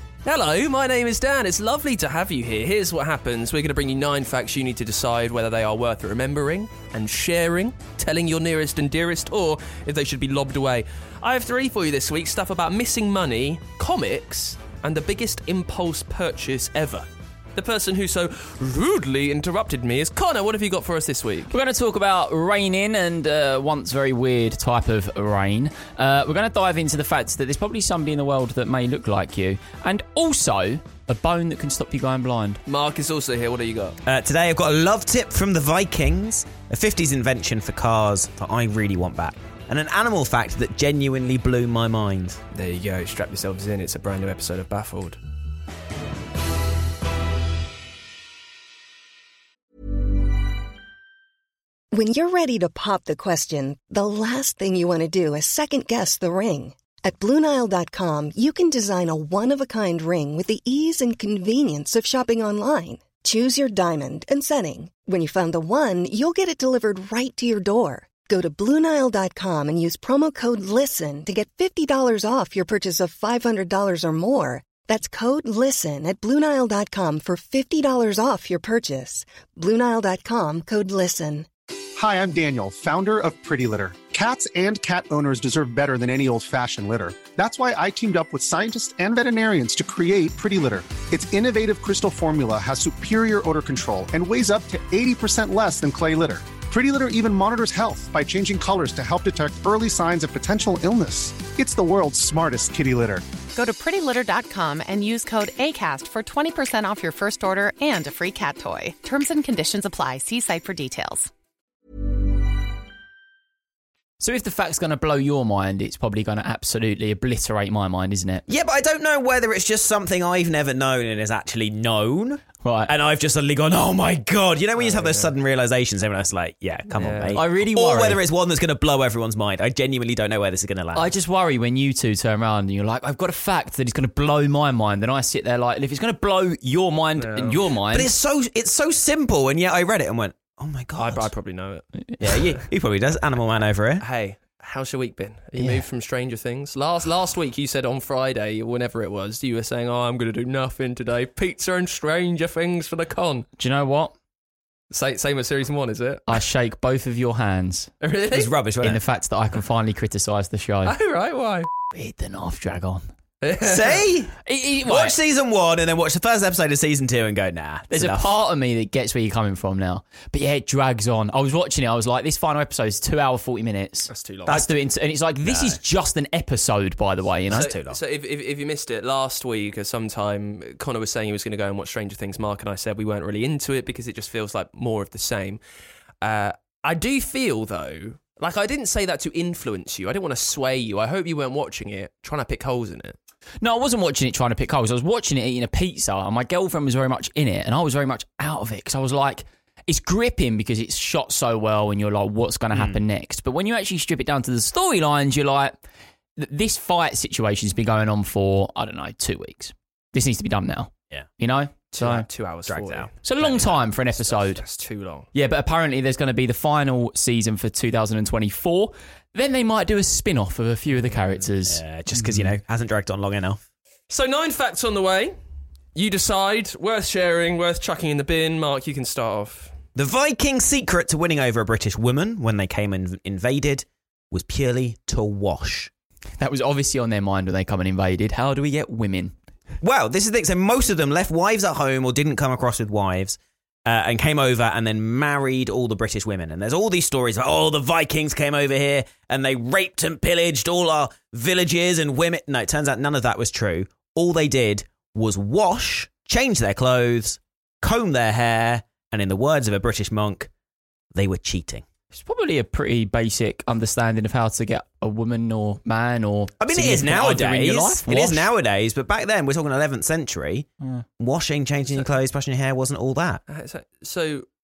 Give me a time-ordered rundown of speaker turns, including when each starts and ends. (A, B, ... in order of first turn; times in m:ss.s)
0:00.2-0:21.6 A
0:21.5-0:32.6 B
0:32.7-0:34.0 A
0:34.0-0:42.4 C
0:42.5-0:45.2 A
0:51.9-1:21.5 D
1:22.0-1:43.2 E
1:43.5-1:51.3 F
1:54.2-1:58.4 B
1:58.5-2:11.1 C
2:02.6-2:02.9 B
2:04.8-2:05.3 A
2:06.9-2:07.4 A
2:07.3-2:08.2 B
2:11.0-2:18.1 B
2:17.2-2:17.6 A
2:17.9-2:21.3 C
2:21.0-2:21.8 A
2:22.2-2:24.0 C
2:24.0-2:33.5 A
2:25.6-2:25.8 B
2:33.6-2:34.1 B
2:34.9-2:36.4 A
2:36.3-2:37.9 B
2:38.0-2:38.5 A
2:38.3-2:39.0 C
2:38.8-2:41.0 B
2:40.8-2:41.7 A
2:41.9-2:43.0 B
2:43.4-2:44.1 A
2:43.6-2:48.3 C
2:44.4-2:45.2 B
2:47.9-2:57.7 B
2:54.1-2:54.6 A
2:55.4-2:55.8 C
2:57.5-2:58.0 C
2:57.5-3:05.6 A
3:06.2-3:13.2 A
3:13.6-3:25.7 B
3:22.7-3:23.0 C
3:26.4-3:32.2 B
3:31.9-3:35.3 A
3:32.7-3:33.1 C
3:33.2-3:34.6 B
3:35.3-3:42.5 B
3:40.9-3:41.5 A
3:41.7-3:43.6 C
3:44.1-3:45.4 A
3:45.9-3:49.8 A
3:50.0-3:55.9 C
3:56.4-3:59.4 B
3:59.8-4:20.5 C
4:21.1-4:21.8 C
4:22.1-4:28.5 B
4:26.6-4:30.7 C
4:31.2-4:33.4 C
4:31.9-4:32.1 A
4:33.5-4:34.5 A